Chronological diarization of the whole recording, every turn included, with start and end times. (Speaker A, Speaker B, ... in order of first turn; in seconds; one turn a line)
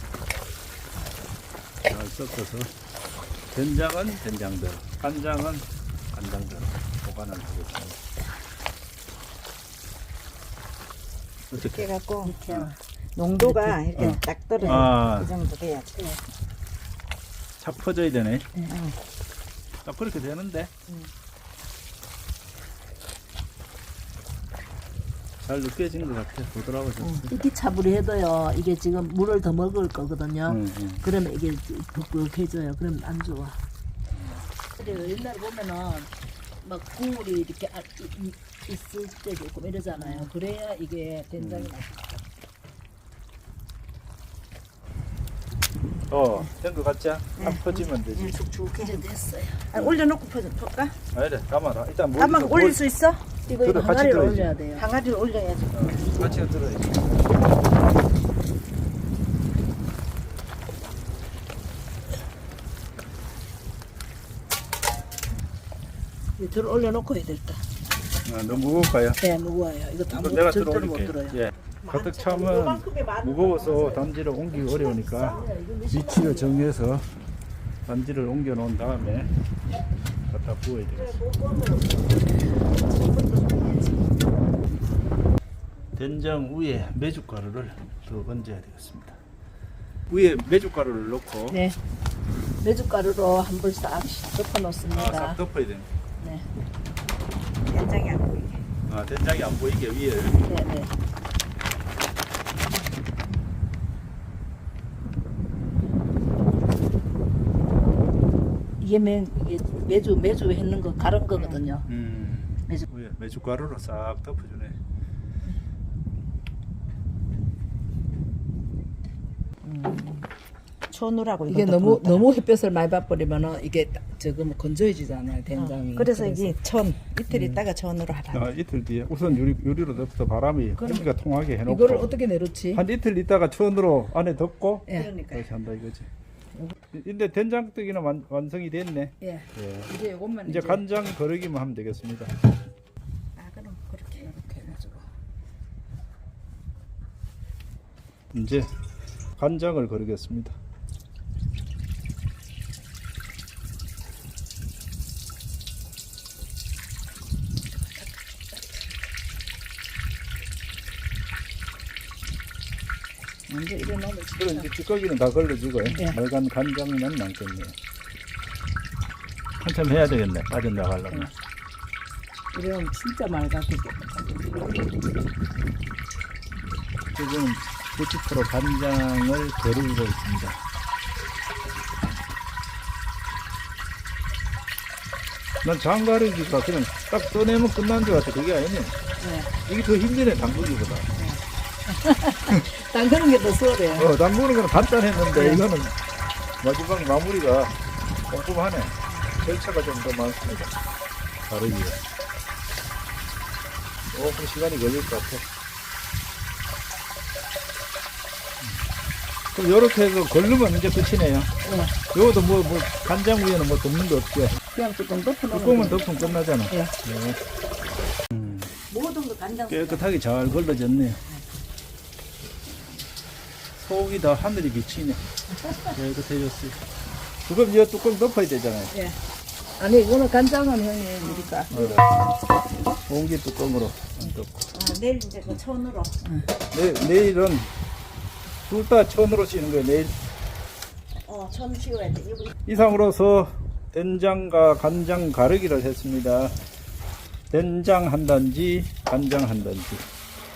Speaker A: 1.9-2.7
Speaker A: 3.5-8.0
Speaker A: 11.5-11.9
Speaker B: 11.5-12.4
Speaker C: 12.2-12.8
Speaker A: 12.4-12.7
Speaker B: 13.2-16.0
Speaker C: 13.4-13.8
Speaker A: 14.0-15.3
Speaker C: 14.6-14.9
Speaker A: 17.6-18.5
Speaker B: 18.7-19.0
Speaker A: 19.9-20.7
Speaker A: 25.4-27.3
Speaker C: 27.2-33.6
Speaker A: 30.5-31.0
Speaker C: 34.8-36.1
Speaker C: 36.6-42.2
Speaker B: 40.0-40.3
Speaker A: 41.4-41.7
Speaker A: 46.1-48.4
Speaker B: 47.4-49.0
Speaker C: 48.8-49.7
Speaker B: 49.7-51.0
Speaker A: 49.7-50.0
Speaker A: 51.1-52.8
Speaker B: 52.2-53.3
Speaker C: 53.5-54.9
Speaker A: 53.5-54.5
Speaker B: 54.8-56.3
Speaker A: 55.7-57.4
Speaker C: 66.4-67.6
Speaker A: 68.2-69.2
Speaker C: 69.2-71.4
Speaker A: 70.1-77.2
Speaker B: 71.8-75.5
Speaker C: 75.2-76.7
Speaker A: 77.9-79.3
Speaker A: 80.3-81.2
Speaker B: 81.0-82.2
Speaker B: 82.9-84.2
Speaker A: 86.0-89.2
Speaker A: 90.1-91.6
Speaker C: 91.5-91.8
Speaker C: 92.6-95.4
Speaker A: 94.9-95.9
Speaker C: 96.2-96.5
Speaker B: 97.7-98.6
Speaker A: 98.9-100.4
Speaker C: 100.4-100.9
Speaker C: 108.8-111.9
Speaker A: 111.9-114.8
Speaker C: 119.6-120.3
Speaker B: 120.9-122.3
Speaker C: 121.5-126.6
Speaker B: 125.5-128.5
Speaker A: 127.3-127.6
Speaker A: 128.3-132.1
Speaker C: 130.8-131.1
Speaker C: 131.7-132.8
Speaker A: 132.7-136.1
Speaker B: 134.9-135.5
Speaker A: 136.9-139.9
Speaker C: 139.2-140.8
Speaker A: 140.5-142.3
Speaker B: 143.4-144.3
Speaker C: 144.2-145.0
Speaker A: 148.3-148.7
Speaker A: 149.4-150.6
Speaker C: 163.5-164.7
Speaker A: 164.4-167.8
Speaker A: 169.6-171.3
Speaker C: 172.5-174.7
Speaker A: 177.1-180.6
Speaker A: 185.6-188.9
Speaker C: 189.2-189.5
Speaker A: 189.7-191.1
Speaker C: 191.2-194.1
Speaker A: 193.9-196.0
Speaker C: 195.3-195.6
Speaker A: 196.6-197.8
Speaker A: 198.3-200.7
Speaker A: 201.5-202.0
Speaker A: 204.1-205.4
Speaker A: 209.5-211.5
Speaker C: 211.6-212.0
Speaker A: 212.1-214.6
Speaker C: 214.7-216.9
Speaker A: 215.5-217.4
Speaker A: 218.3-218.7
Speaker B: 218.9-220.1
Speaker A: 219.7-221.2
Speaker A: 223.8-225.2
Speaker A: 225.9-226.8
Speaker A: 227.4-228.9
Speaker C: 228.9-229.2
Speaker C: 229.8-232.0
Speaker B: 231.2-231.6
Speaker A: 231.7-232.3
Speaker A: 233.1-234.7
Speaker B: 234.7-236.2
Speaker A: 236.7-237.7
Speaker A: 238.7-240.2
Speaker B: 241.2-242.5
Speaker A: 242.7-246.6
Speaker A: 247.5-250.1